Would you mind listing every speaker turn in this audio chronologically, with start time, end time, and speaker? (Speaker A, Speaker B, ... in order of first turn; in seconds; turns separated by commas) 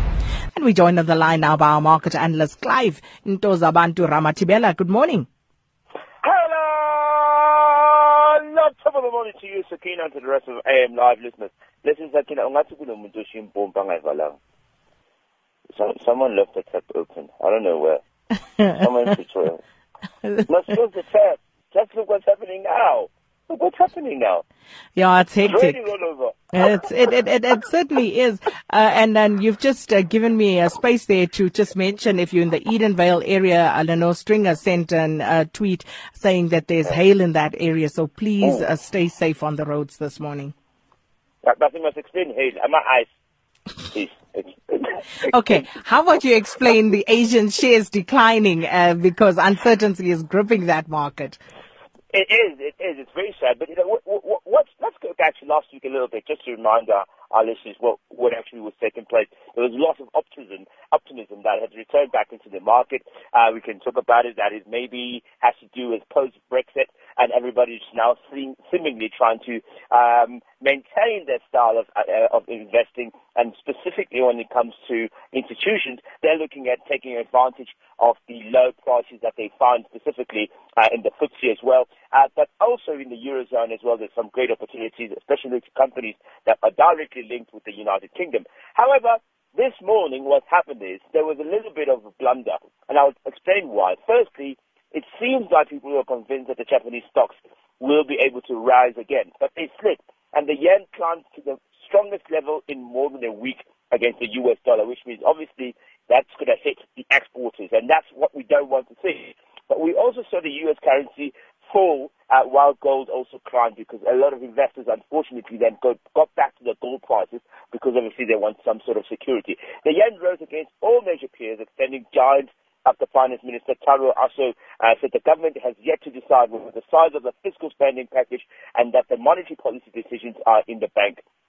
Speaker A: 0.5-5.3, Speaker B: 6.2-14.4, Speaker B: 15.7-18.0, Speaker B: 18.7-19.6, Speaker B: 20.4-24.4, Speaker A: 24.9-25.8, Speaker B: 25.4-26.4, Speaker A: 26.5-40.5, Speaker B: 41.4-43.1, Speaker B: 43.9-45.6, Speaker A: 45.2-51.4, Speaker B: 52.1-131.2